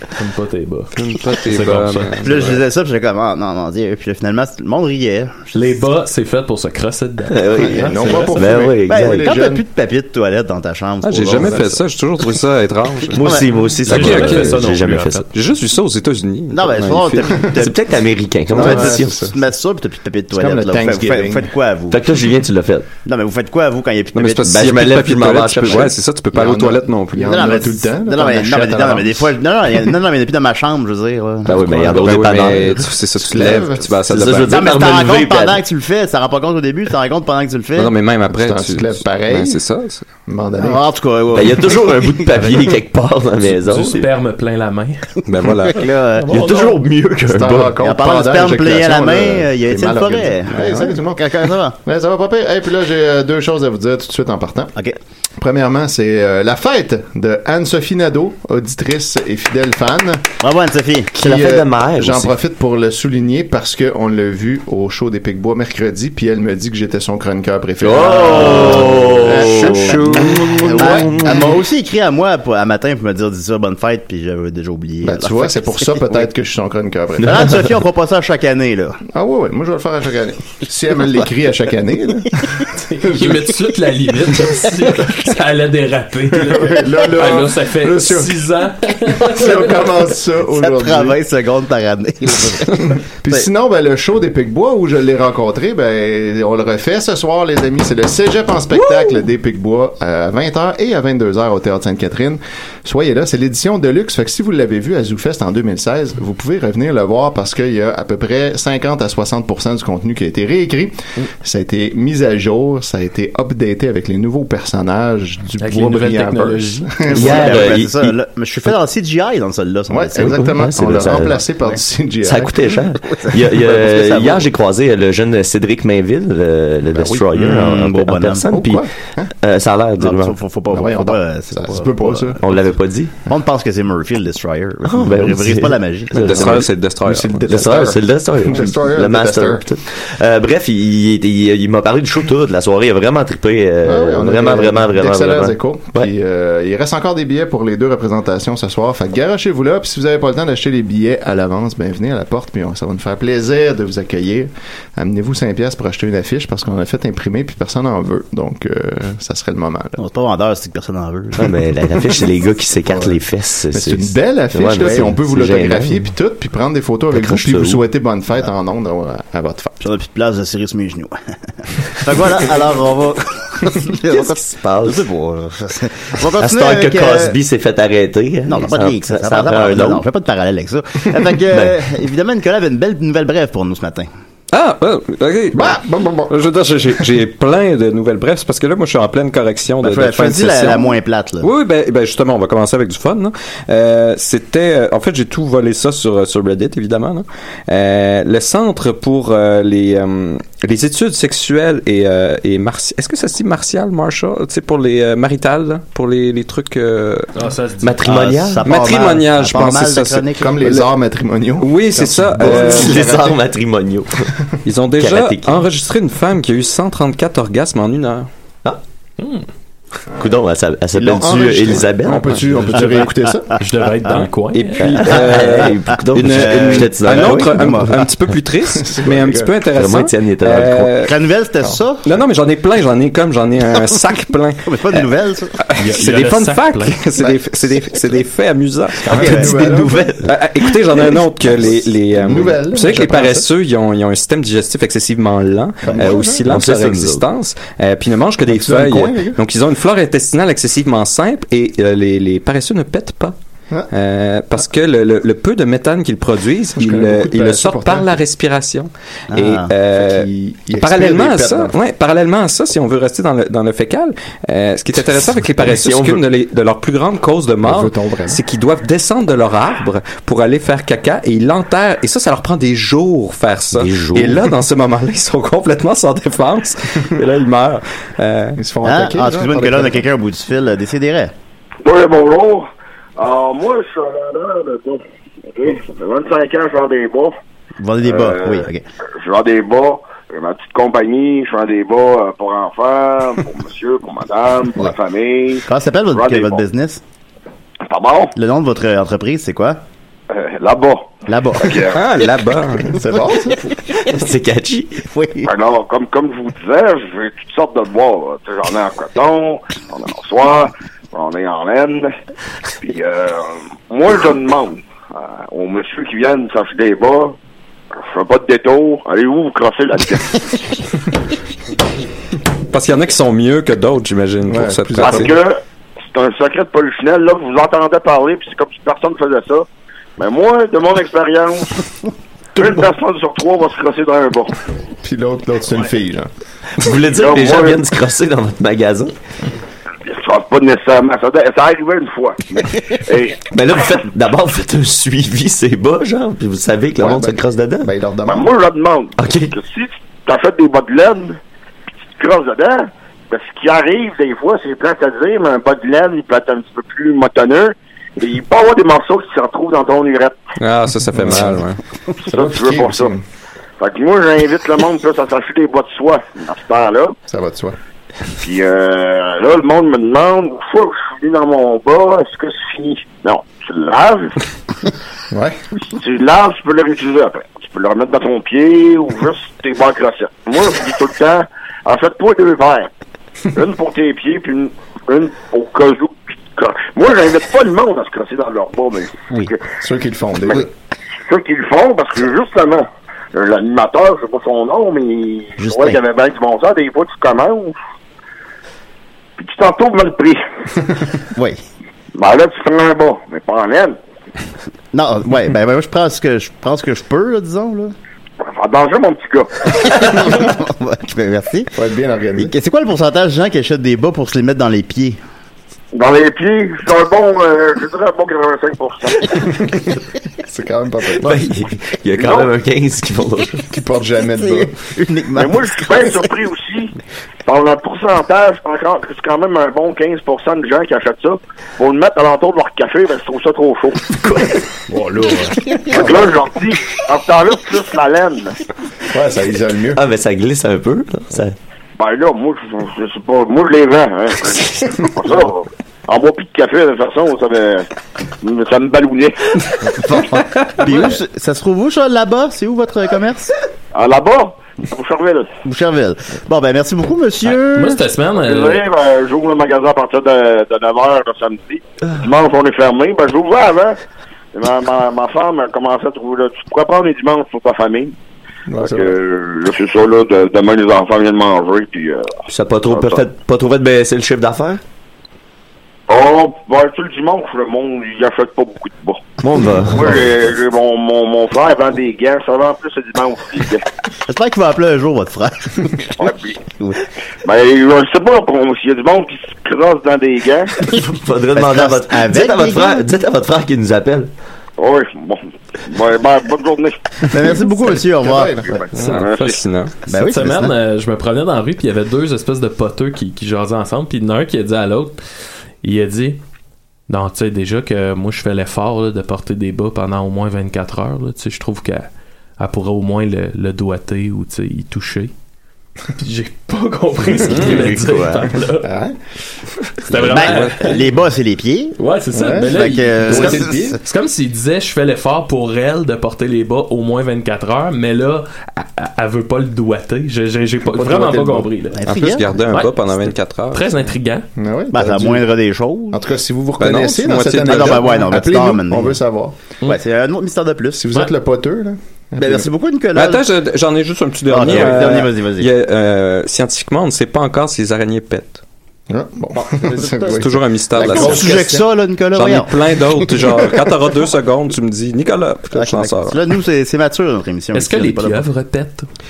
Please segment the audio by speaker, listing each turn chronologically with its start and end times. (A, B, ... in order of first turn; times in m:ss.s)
0:00.1-0:02.1 A
0:01.0-0:02.6 B
0:02.2-0:05.7 C
0:05.5-0:07.4 A
0:07.3-0:09.3 D
0:07.7-0:09.6 E
0:08.0-0:08.4 A
0:08.9-0:11.8 C
0:11.0-0:14.7 B
0:11.4-0:11.6 E
0:13.1-0:15.2 D
0:13.8-0:15.2 A
0:15.3-0:17.5 B
0:16.5-0:17.8 C
0:17.5-0:19.3 D
0:18.5-0:19.3 E
0:18.6-0:22.0 C
0:20.3-0:21.5 E
0:21.9-0:22.9 D
0:23.0-0:24.6 C
0:24.1-0:27.5 B
0:24.4-0:26.0 D
0:26.3-0:29.1 E
0:27.3-0:32.0 C
0:31.4-0:32.9 D
0:31.6-0:34.6 B
0:33.2-0:34.4 E
0:34.1-0:35.6 D
0:34.5-0:37.9 C
0:37.8-0:40.1 B
0:38.3-0:39.6 E
0:40.2-0:40.8 E
0:40.6-0:41.8 C
0:41.3-0:44.1 D
0:42.3-0:42.8 A
0:43.4-0:45.1 A
0:45.2-0:45.8 B
0:45.6-0:46.4 C
0:46.2-0:46.8 A
0:46.3-0:47.7 D
0:47.3-0:54.7 E
0:47.8-0:51.8 C
0:55.4-1:00.2 E
1:00.4-1:01.1 C
1:01.1-1:11.5 E
1:01.2-1:02.3 D
1:07.8-1:11.6 D
1:07.9-1:09.8 C
1:09.8-1:10.3 B
1:10.7-1:16.2 C
1:15.0-1:17.6 E
1:17.2-1:19.0 C
1:19.1-1:23.5 E
1:22.9-1:30.0 A
1:26.4-1:31.2 E
1:30.6-1:33.4 C
1:32.9-1:57.5 E
1:55.6-1:57.8 A
1:57.1-1:58.1 D
1:57.2-2:00.5 C
1:59.9-2:02.8 E
2:00.4-2:01.4 D
2:02.2-2:08.8 D
2:03.0-2:04.5 C
2:06.9-2:07.5 E
2:07.3-2:08.4 C
2:08.5-2:09.3 E
2:09.4-2:10.4 D
2:10.0-2:12.4 C
2:10.7-2:12.6 E
2:12.4-2:13.1 D
2:13.3-2:16.5 C
2:14.8-2:16.7 D
2:16.2-2:17.8 B
2:17.0-2:19.7 E
2:17.5-2:26.1 D
2:23.8-2:40.0 E
2:40.0-2:41.6 C
2:41.3-2:46.0 D
2:42.8-2:43.2 E
2:43.7-2:49.8 E
2:47.1-2:47.8 D
2:49.8-2:51.2 C
2:51.8-2:57.4 C
2:54.1-2:55.0 D
2:56.3-3:00.0 D
2:58.5-3:04.1 C
3:01.5-3:01.7 D
3:04.5-3:27.3 B
3:05.5-3:06.3 E
3:09.8-3:11.5 C
3:27.4-3:28.0 A
3:27.8-3:28.6 D
3:28.0-3:30.8 C
3:28.6-3:30.3 B
3:30.4-3:33.4 E
3:31.6-3:33.1 B
3:32.4-3:34.3 D
3:34.6-3:38.3 B
3:35.0-3:35.6 D
3:39.2-3:39.4 A
3:40.2-3:42.9 D
3:41.0-3:43.6 E
3:42.7-3:45.0 A
3:44.5-3:51.1 B
3:44.8-3:48.0 D
3:46.2-3:48.0 C
3:48.7-3:49.6 E
3:49.7-3:50.9 D
3:51.0-3:52.0 C
3:52.0-3:55.0 B
3:54.6-3:55.6 C
3:55.6-3:59.5 B
3:55.8-3:57.0 A
3:59.0-4:00.0 E
3:59.1-4:00.3 D
3:59.1-3:59.5 C
4:00.2-4:13.3 B
4:02.1-4:03.5 E
4:05.8-4:06.4 E
4:06.0-4:07.2 D
4:08.5-4:09.4 E
4:13.9-4:38.6 B
4:16.8-4:18.2 E
4:19.3-4:19.7 C
4:19.9-4:21.7 E
4:25.6-4:26.2 D
4:27.6-4:28.4 E
4:33.7-4:34.5 D
4:38.6-4:40.0 E
4:38.8-4:41.3 C
4:41.8-4:47.4 F
4:47.8-4:48.8 C
4:48.0-4:48.7 F
4:49.2-4:56.6 F
4:55.6-4:57.0 C
4:57.8-4:58.3 F
4:58.3-4:59.8 C
5:00.3-5:02.0 F
5:01.3-5:01.8 C
5:01.9-5:03.0 B
5:02.8-5:03.7 E
5:04.0-5:05.0 D
5:05.1-5:05.5 C
5:05.4-5:12.1 F
5:12.8-5:17.4 F
5:18.0-5:20.5 F
5:22.7-5:25.3 B
5:24.4-5:25.3 E
5:25.0-5:29.6 F
5:30.2-5:31.8 F
5:32.6-5:34.5 F
5:35.0-5:36.3 E
5:36.8-5:39.1 D
5:37.1-5:37.8 F
5:40.0-5:43.4 F
5:43.5-5:47.9 D
5:47.0-5:48.5 E
5:48.2-5:51.4 F
5:49.2-5:49.5 D
5:52.2-6:00.4 F
6:00.6-6:01.8 B
6:01.1-6:01.6 E
6:02.2-6:03.1 F
6:02.2-6:03.2 E
6:03.8-6:07.2 F
6:07.3-6:07.8 E
6:08.4-6:14.4 F
6:15.3-6:15.6 E
6:15.8-6:22.9 F
6:23.5-6:29.6 F
6:29.8-6:30.7 E
6:31.3-6:37.8 F
6:35.6-6:36.0 C
6:39.4-6:40.4 F
6:41.4-6:41.6 C
6:42.1-6:44.0 F
6:44.9-6:47.9 C
6:48.4-6:50.1 F
6:49.8-6:51.7 C
6:51.7-6:52.5 E
6:52.4-6:55.2 C
6:55.9-6:59.5 F
7:00.4-7:01.4 E
7:01.2-7:03.6 D
7:02.2-7:02.5 F
7:03.7-7:04.7 E
7:04.4-7:06.2 C
7:05.3-7:06.9 F
7:07.4-7:14.1 F
7:14.2-7:14.6 D
7:14.9-7:15.8 A
7:15.9-7:18.5 F
7:15.9-7:16.2 E
7:19.1-7:20.0 E
7:19.9-7:21.6 D
7:22.0-7:27.9 F
7:28.4-7:29.4 F
7:29.9-7:33.5 C
7:33.9-7:35.5 F
7:35.6-7:38.0 C
7:37.6-7:38.8 A
7:38.4-7:44.0 F
7:44.5-7:48.1 F
7:48.7-7:49.1 E
7:48.8-7:53.2 F
7:52.5-7:54.8 D
7:56.1-7:59.3 F
7:59.4-8:00.4 D
7:59.9-8:03.8 F
8:04.3-8:06.2 C
8:06.2-8:06.6 F
8:07.4-8:10.8 F
8:11.0-8:14.3 D
8:11.5-8:13.0 C
8:14.8-8:17.0 F
8:17.2-8:18.6 C
8:18.2-8:18.8 E
8:18.6-8:19.6 F
8:18.9-8:19.9 B
8:20.1-8:20.7 C
8:20.1-8:25.2 A
8:25.8-8:26.4 A
8:27.1-8:35.3 A
8:36.2-8:38.9 A
8:37.4-8:38.5 D
8:37.5-8:37.8 B
8:38.8-8:39.2 E
8:40.1-8:41.1 A
8:40.1-8:42.0 C
8:40.3-8:40.9 B
8:42.0-8:52.0 A
8:42.3-8:44.0 E
8:42.5-8:43.9 C
8:50.9-8:51.7 E
8:51.9-8:52.5 C
8:52.1-8:54.0 B
8:53.7-8:54.4 A
8:54.6-8:55.4 E
8:54.9-8:56.2 C
8:56.1-8:59.6 E
8:56.8-8:58.1 B
8:57.6-8:59.2 C
8:59.8-9:01.1 C
9:01.0-9:02.7 E
9:02.4-9:03.4 C
9:03.1-9:08.6 B
9:04.5-9:05.7 C
9:09.1-9:11.8 E
9:09.6-9:10.4 C
9:10.3-9:11.6 B
9:11.0-9:12.7 C
9:12.3-9:16.4 B
9:15.7-9:18.4 C
9:17.7-9:19.1 A